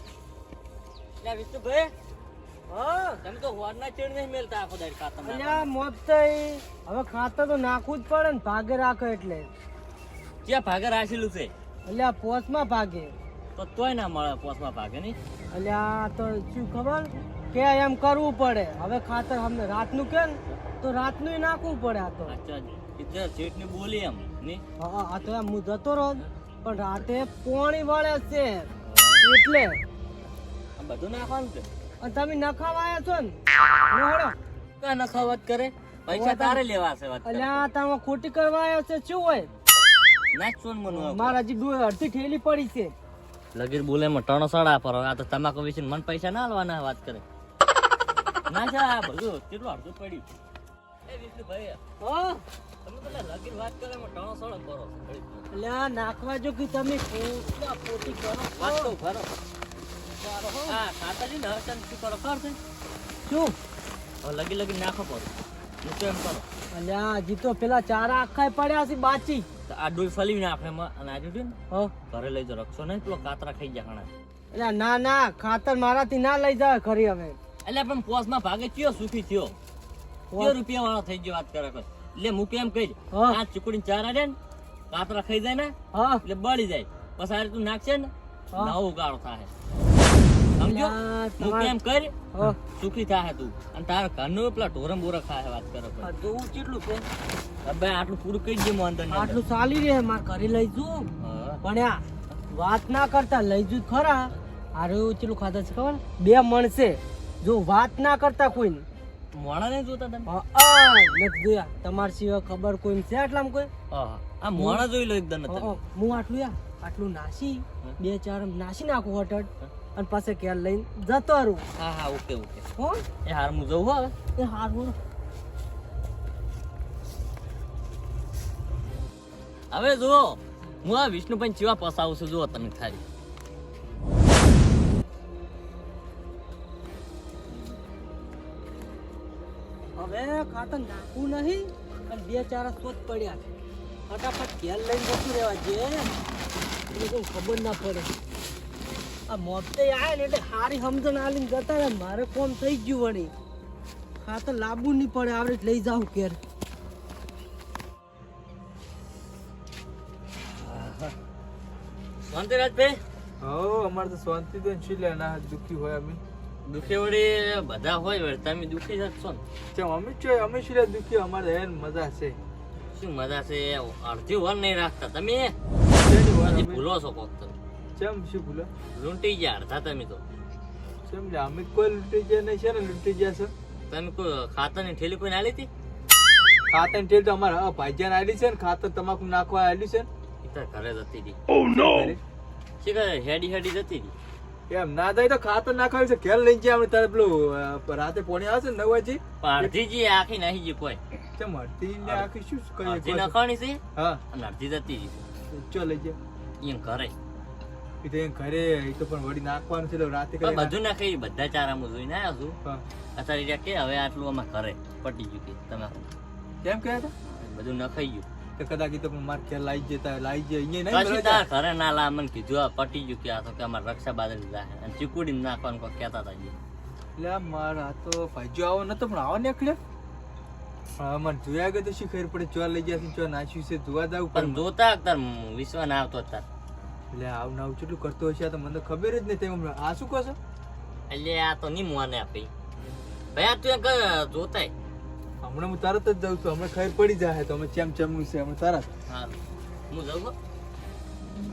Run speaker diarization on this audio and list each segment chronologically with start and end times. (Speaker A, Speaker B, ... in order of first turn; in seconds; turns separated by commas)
Speaker A: 1.2-1.9, Speaker B: 2.7-3.2, Speaker A: 3.2-5.7, Speaker B: 5.2-9.5, Speaker A: 10.4-11.5, Speaker B: 11.8-13.1, Speaker A: 13.6-15.2, Speaker B: 15.5-22.3, Speaker A: 22.3-24.6, Speaker B: 24.8-28.7, Speaker A: 28.8-29.2, Speaker B: 29.2-29.8, Speaker A: 30.8-31.7, Speaker B: 32.0-33.4, Speaker B: 33.9-34.4, Speaker A: 34.8-37.7, Speaker B: 36.1-36.6, Speaker B: 37.2-39.5, Speaker A: 40.3-41.4, Speaker B: 40.9-42.9, Speaker A: 43.5-47.2, Speaker A: 48.5-50.3, Speaker A: 51.1-51.8, Speaker B: 52.0-52.4, Speaker A: 52.8-55.5, Speaker B: 55.5-58.9, Speaker A: 58.5-59.3, Speaker B: 60.2-60.8, Speaker A: 60.6-62.6, Speaker B: 63.2-63.5, Speaker A: 64.2-66.4, Speaker B: 66.7-69.5, Speaker A: 69.7-71.6, Speaker A: 72.1-74.1, Speaker B: 74.5-77.4, Speaker A: 77.6-79.5, Speaker B: 80.3-80.6, Speaker A: 80.4-84.4, Speaker B: 83.1-83.4, Speaker A: 84.9-89.5, Speaker B: 85.9-86.2, Speaker A: 90.5-96.1, Speaker B: 90.6-91.7, Speaker B: 96.0-97.0, Speaker A: 97.6-99.4, Speaker B: 99.1-101.1, Speaker A: 101.2-101.6, Speaker B: 101.6-108.8, Speaker A: 109.3-110.3, Speaker B: 110.3-113.7, Speaker A: 113.9-115.8, Speaker B: 114.5-114.8, Speaker B: 115.5-121.6, Speaker A: 121.8-122.7, Speaker B: 122.8-123.0, Speaker A: 123.2-124.2, Speaker B: 124.3-124.9, Speaker A: 129.7-133.0, Speaker B: 139.9-143.4, Speaker B: 144.1-146.1, Speaker B: 146.9-148.1, Speaker B: 149.3-153.3, Speaker B: 154.2-156.4, Speaker A: 160.4-161.1, Speaker A: 162.3-163.0, Speaker C: 163.4-166.2, Speaker A: 166.6-169.4, Speaker C: 169.7-172.4, Speaker A: 172.9-175.6, Speaker C: 175.9-176.8, Speaker A: 176.4-177.5, Speaker C: 177.9-178.7, Speaker A: 178.9-180.2, Speaker C: 181.1-183.5, Speaker A: 183.9-185.7, Speaker C: 186.7-190.1, Speaker A: 190.4-191.4, Speaker C: 191.6-192.2, Speaker A: 192.8-194.1, Speaker C: 194.7-199.7, Speaker A: 199.4-201.0, Speaker C: 201.3-203.3, Speaker A: 202.0-202.3, Speaker A: 202.8-205.2, Speaker C: 203.9-204.2, Speaker C: 205.5-206.2, Speaker A: 206.6-207.1, Speaker C: 208.0-210.8, Speaker A: 210.4-212.6, Speaker A: 213.2-216.1, Speaker C: 216.6-217.1, Speaker A: 217.4-218.2, Speaker C: 218.6-221.4, Speaker A: 220.9-226.5, Speaker C: 227.2-229.8, Speaker C: 231.0-234.6, Speaker A: 234.3-236.4, Speaker C: 237.1-240.4, Speaker A: 241.1-242.5, Speaker A: 243.3-244.7, Speaker C: 245.4-248.9, Speaker A: 249.1-249.3, Speaker A: 249.9-250.3